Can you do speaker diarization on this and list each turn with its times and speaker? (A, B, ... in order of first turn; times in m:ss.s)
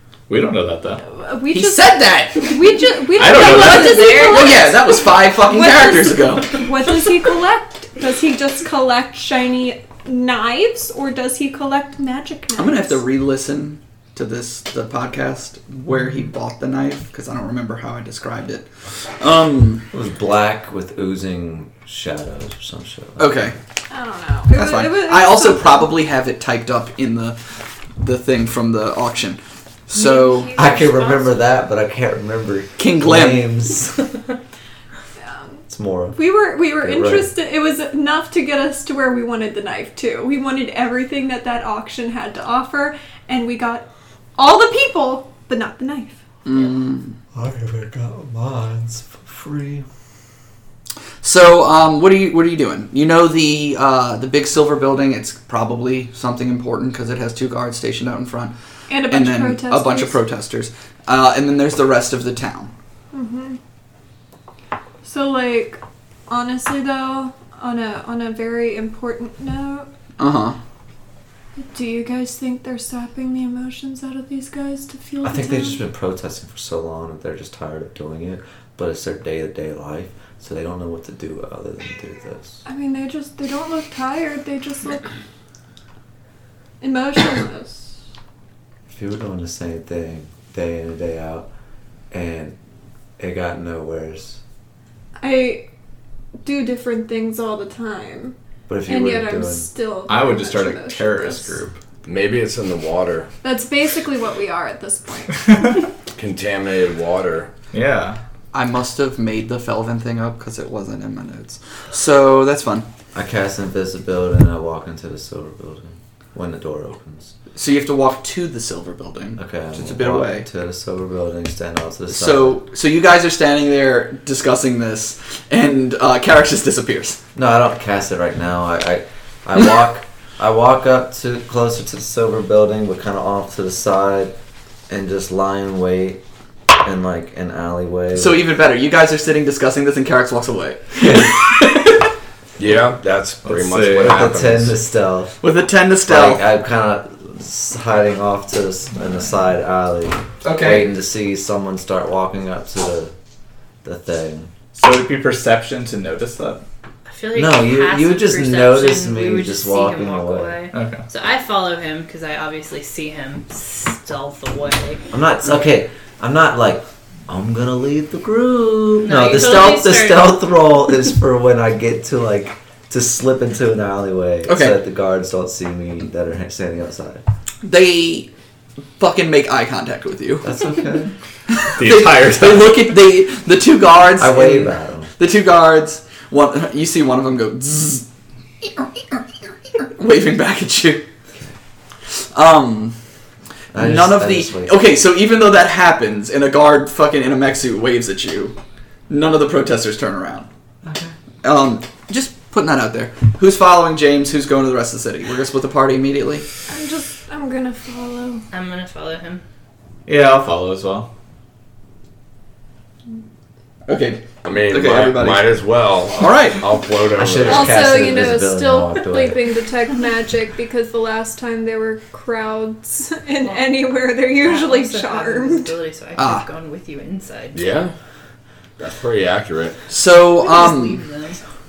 0:00.3-0:01.0 A
0:01.0-0:13.0 B
0:01.5-0:02.8 C
0:03.1-0:04.4 A
0:03.2-0:04.7 D
0:04.2-0:06.6 C
0:12.6-0:19.9 C
0:19.9-0:23.6 E
0:23.2-0:23.6 C
0:23.9-0:25.9 B
0:24.5-0:27.4 C
0:28.0-0:30.6 C
0:29.9-0:31.0 B
0:30.5-0:34.1 E
0:30.6-0:31.1 D
0:32.8-0:33.5 C
0:35.2-0:35.6 B
0:35.7-0:37.3 E
0:36.1-0:46.2 B
0:46.4-0:47.2 C
0:47.3-0:49.9 E
0:51.2-0:58.5 C
0:58.9-1:00.2 B
0:59.1-1:02.7 C
1:03.1-1:03.6 B
1:05.0-1:09.9 B
1:10.2-1:10.6 C
1:11.6-1:15.8 B
1:15.2-1:22.6 E
1:22.6-1:25.1 B
1:26.8-1:27.9 B
1:28.9-1:31.5 E
1:32.1-1:32.6 E
1:33.2-1:34.4 E
1:35.2-1:35.6 B
1:36.4-1:41.6 B
1:38.7-1:39.7 E
1:40.1-1:41.8 A
1:42.0-1:43.3 F
1:43.4-1:45.5 B
1:46.2-1:47.5 F
1:47.7-1:48.2 A
1:48.5-1:52.9 C
1:53.1-1:57.3 E
1:57.5-2:00.5 C
1:59.4-2:02.6 E
2:02.1-2:07.2 C
2:07.4-2:14.4 E
2:14.9-2:16.2 E
2:16.8-2:18.4 E
2:18.1-2:21.8 C
2:22.6-2:24.8 F
2:23.5-2:24.1 A
2:23.7-2:25.4 E
2:25.4-2:26.4 C
2:26.1-2:33.1 E
2:30.4-2:30.9 C
2:33.8-2:34.5 E
2:34.8-2:36.6 A
2:37.1-2:45.0 D
2:37.3-2:40.6 E
2:40.7-2:41.0 A
2:45.1-2:57.2 E
2:49.0-2:50.5 D
2:54.5-2:54.8 C
2:57.6-2:58.3 C
2:59.0-3:00.5 C
3:00.4-3:01.1 E
3:01.5-3:08.0 C
3:01.8-3:02.8 A
3:04.2-3:05.1 E
3:09.8-3:11.0 C
3:12.2-3:13.0 C
3:13.7-3:14.8 E
3:13.8-3:18.6 C
3:19.1-3:20.5 C
3:20.8-3:21.1 E
3:21.4-3:26.5 C
3:26.7-3:28.4 B
3:28.5-3:29.4 D
3:30.1-3:31.1 A
3:33.9-3:35.6 C
3:34.4-3:37.9 F
3:36.1-3:36.6 C
3:37.2-3:39.6 E
3:37.5-3:45.7 B
3:43.4-3:47.7 D
3:46.2-3:46.5 C
3:47.5-3:47.9 F
3:48.8-3:49.8 F
3:49.9-3:51.0 C
3:50.4-3:51.4 D